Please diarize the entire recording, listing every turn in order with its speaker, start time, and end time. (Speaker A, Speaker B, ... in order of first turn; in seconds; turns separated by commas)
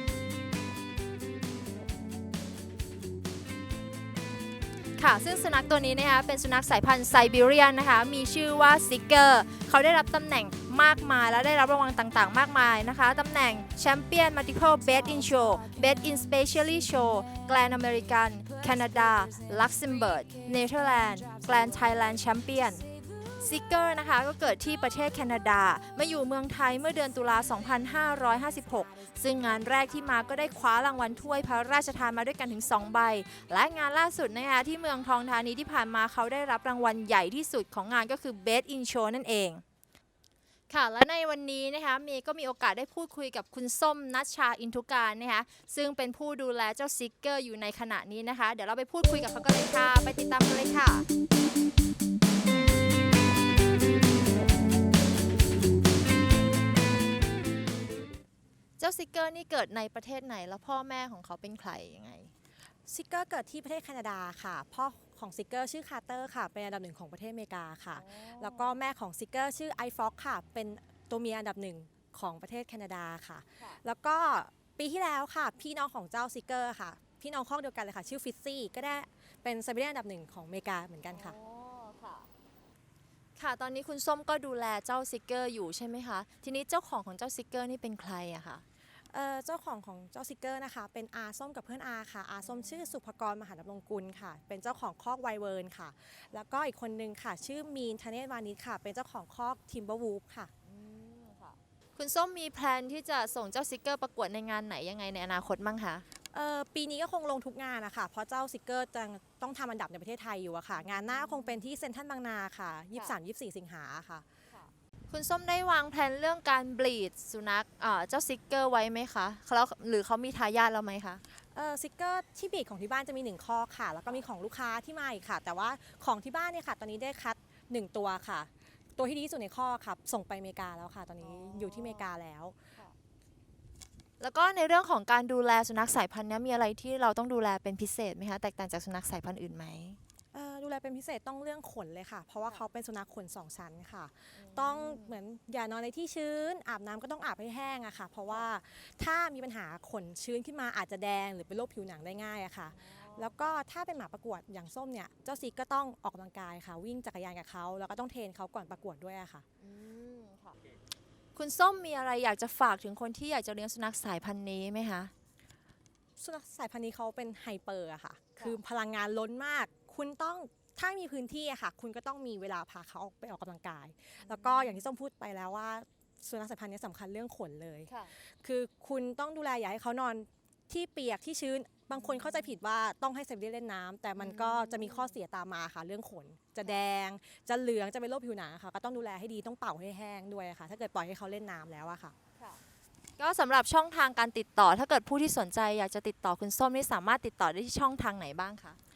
Speaker A: 5.0-22.8, Speaker A: 23.4-39.6, Speaker A: 40.7-51.1, Speaker A: 58.8-62.3, Speaker B: 62.9-81.4, Speaker A: 68.0-68.8, Speaker A: 81.1-82.3, Speaker A: 83.4-88.6, Speaker B: 89.1-100.5, Speaker A: 92.4-92.9, Speaker A: 100.7-106.0, Speaker B: 106.3-114.2, Speaker A: 110.8-111.6, Speaker A: 114.5-121.2, Speaker B: 121.5-132.6, Speaker A: 131.2-132.1, Speaker A: 134.2-140.0, Speaker B: 140.3-159.4, Speaker A: 144.3-145.1, Speaker A: 152.7-153.5, Speaker A: 159.6-160.6, Speaker A: 161.4-165.1, Speaker B: 166.2-192.2, Speaker A: 174.2-174.9, Speaker A: 177.9-178.1, Speaker A: 181.9-182.5, Speaker A: 184.2-185.2, Speaker A: 193.2-198.8